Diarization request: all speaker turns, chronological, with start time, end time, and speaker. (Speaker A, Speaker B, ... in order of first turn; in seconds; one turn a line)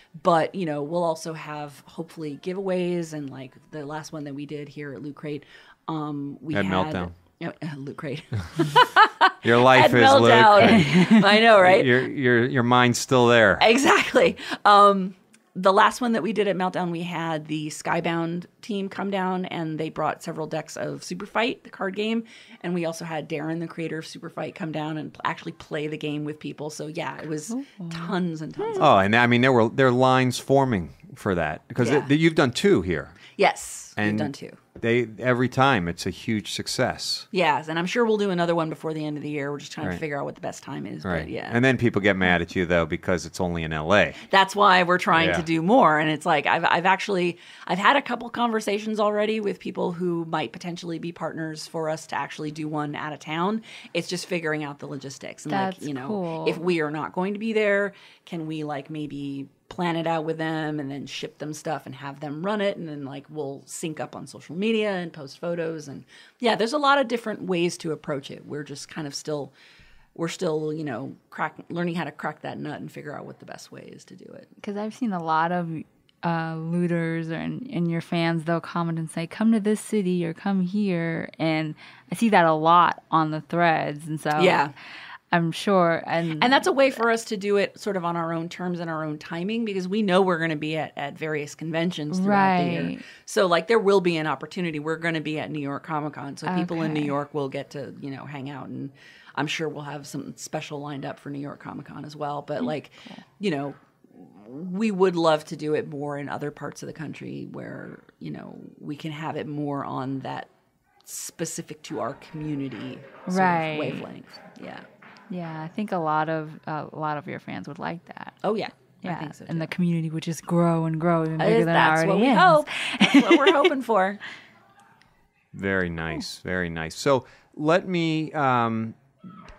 Speaker A: 0.2-12.0
Speaker B: 6.5-7.1
Speaker B: 9.4-13.7
Speaker C: 10.8-11.2
Speaker A: 13.6-28.9
Speaker C: 27.5-28.8
Speaker B: 28.8-33.2
Speaker A: 31.8-32.1
Speaker A: 33.4-34.6
Speaker B: 34.0-37.3
Speaker A: 37.3-41.6
Speaker B: 41.0-44.2
Speaker A: 44.3-69.5
Speaker B: 45.1-45.5
Speaker C: 55.5-56.6
Speaker A: 70.1-74.5
Speaker C: 74.6-84.6
Speaker A: 84.3-84.7
Speaker C: 85.3-86.6
Speaker A: 86.4-110.5
Speaker C: 92.1-93.0
Speaker C: 96.5-97.1
Speaker A: 111.0-114.8
Speaker C: 113.2-114.0
Speaker C: 115.3-118.3
Speaker A: 118.4-119.7
Speaker C: 119.0-123.6
Speaker A: 121.4-124.2
Speaker B: 125.5-129.0